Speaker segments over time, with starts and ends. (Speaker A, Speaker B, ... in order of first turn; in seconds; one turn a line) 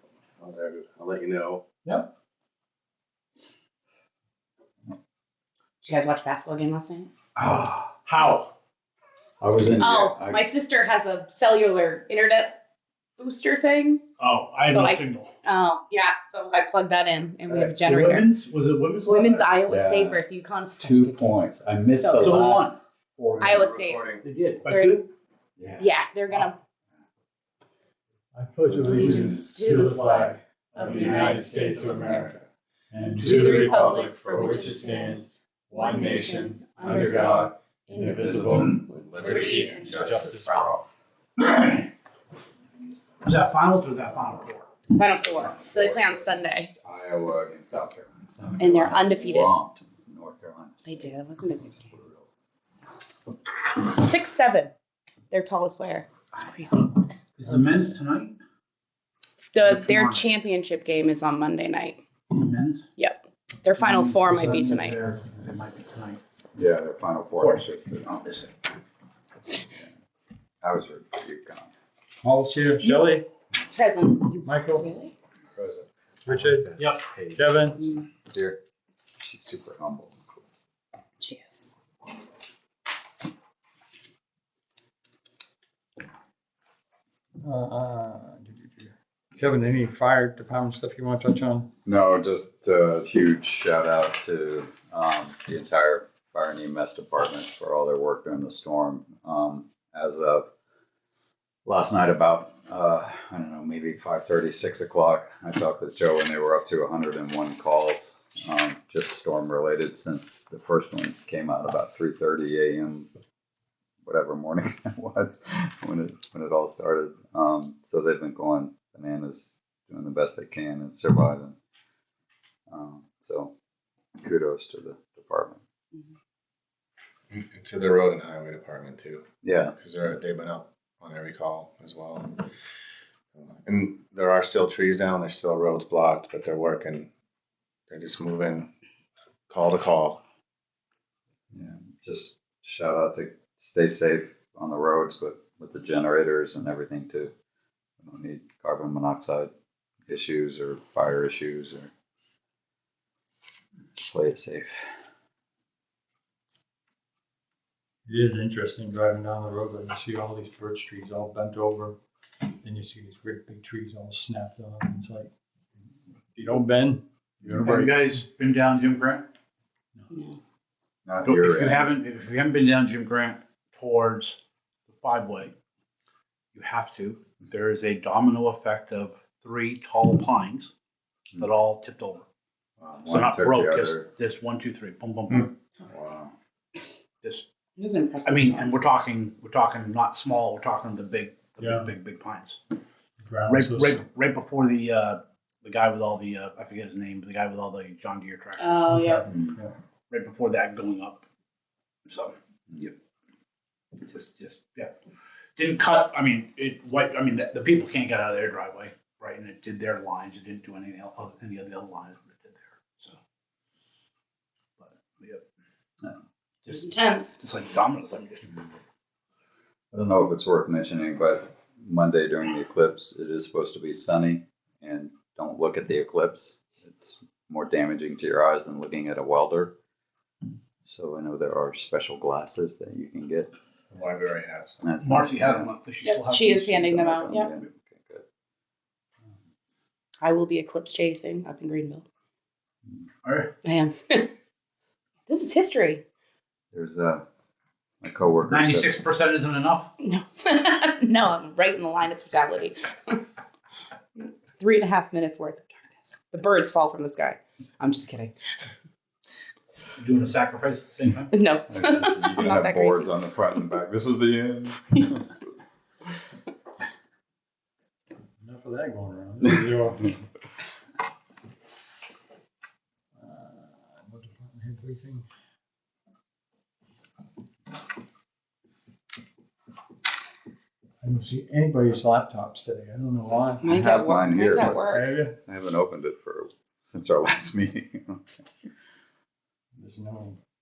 Speaker A: 0.4-1.6
Speaker B: 5.8-7.1
Speaker C: 7.4-7.9
Speaker D: 8.1-8.5
Speaker C: 9.4-10.4
Speaker B: 9.8-12.6
Speaker B: 13.2-14.1
Speaker D: 14.2-15.3
Speaker B: 14.7-18.3
Speaker D: 17.5-19.5
Speaker B: 19.1-22.4
Speaker C: 19.7-20.2
Speaker C: 20.8-22.8
Speaker D: 22.2-23.7
Speaker A: 23.4-24.3
Speaker B: 23.4-25.1
Speaker D: 24.2-25.1
Speaker C: 25.6-25.8
Speaker B: 25.8-26.6
Speaker E: 28.3-32.4
Speaker B: 28.8-32.2
Speaker E: 32.9-40.7
Speaker B: 33.1-40.6
Speaker C: 38.1-38.8
Speaker C: 39.4-40.8
Speaker A: 39.4-39.8
Speaker D: 41.4-41.9
Speaker D: 43.2-44.8
Speaker B: 44.9-46.7
Speaker C: 45.4-51.1
Speaker B: 48.6-49.5
Speaker B: 50.8-51.9
Speaker C: 51.7-52.3
Speaker B: 53.6-54.7
Speaker B: 55.3-56.9
Speaker D: 57.4-58.4
Speaker B: 59.5-62.0
Speaker D: 59.6-60.2
Speaker D: 62.3-62.9
Speaker B: 63.0-65.0
Speaker D: 63.8-66.2
Speaker C: 66.5-68.2
Speaker D: 67.4-68.5
Speaker C: 70.6-71.7
Speaker E: 72.2-73.2
Speaker B: 72.8-73.1
Speaker B: 73.7-75.1
Speaker E: 74.4-74.9
Speaker A: 75.6-77.4
Speaker E: 76.3-77.8
Speaker B: 77.8-78.1
Speaker C: 78.3-78.6
Speaker C: 79.2-80.4
Speaker B: 81.2-81.7
Speaker E: 87.4-91.7
Speaker C: 91.8-100.5
Speaker C: 101.7-113.1
Speaker C: 114.0-121.6
Speaker C: 122.7-123.5
Speaker C: 124.2-125.6
Speaker A: 127.3-129.2
Speaker C: 129.4-129.8
Speaker A: 129.8-132.5
Speaker A: 133.3-137.1
Speaker A: 137.9-138.7
Speaker A: 139.5-140.2
Speaker C: 141.5-147.3
Speaker C: 148.0-149.5
Speaker C: 150.1-151.9
Speaker C: 154.0-154.7
Speaker E: 158.1-162.0
Speaker E: 162.6-165.3
Speaker E: 166.3-168.0
Speaker D: 167.6-169.3
Speaker B: 170.1-170.4
Speaker C: 171.1-171.9
Speaker D: 171.2-175.5
Speaker D: 176.5-180.7
Speaker D: 181.4-182.2
Speaker C: 182.8-184.1
Speaker D: 183.1-185.5
Speaker C: 185.9-186.3
Speaker B: 187.8-188.7
Speaker D: 188.2-192.6
Speaker E: 191.6-191.9
Speaker E: 193.2-194.0
Speaker D: 193.5-198.9
Speaker B: 198.6-199.2
Speaker E: 198.9-199.7
Speaker C: 199.3-199.6
Speaker D: 200.1-201.2
Speaker D: 202.1-202.3
Speaker D: 204.1-204.9
Speaker D: 205.6-213.2
Speaker D: 214.8-215.4
Speaker D: 216.7-218.6
Speaker B: 216.7-217.4
Speaker C: 219.9-229.8
Speaker C: 230.8-233.5
Speaker A: 233.9-234.8
Speaker C: 234.8-235.7
Speaker D: 235.0-237.3
Speaker B: 236.0-237.5
Speaker C: 236.7-238.2
Speaker B: 240.2-242.1
Speaker D: 243.2-243.5
Speaker B: 243.6-244.3
Speaker B: 245.3-246.0
Speaker C: 246.7-247.2
Speaker C: 248.0-249.0
Speaker D: 248.5-249.9
Speaker B: 250.0-253.2
Speaker B: 254.2-258.4
Speaker D: 260.0-261.3
Speaker B: 261.3-263.1
Speaker C: 261.7-265.3
Speaker E: 268.4-270.1
Speaker E: 273.2-275.3
Speaker E: 281.0-283.7
Speaker B: 283.6-285.1
Speaker C: 283.6-288.4
Speaker E: 284.7-285.4
Speaker E: 289.8-290.4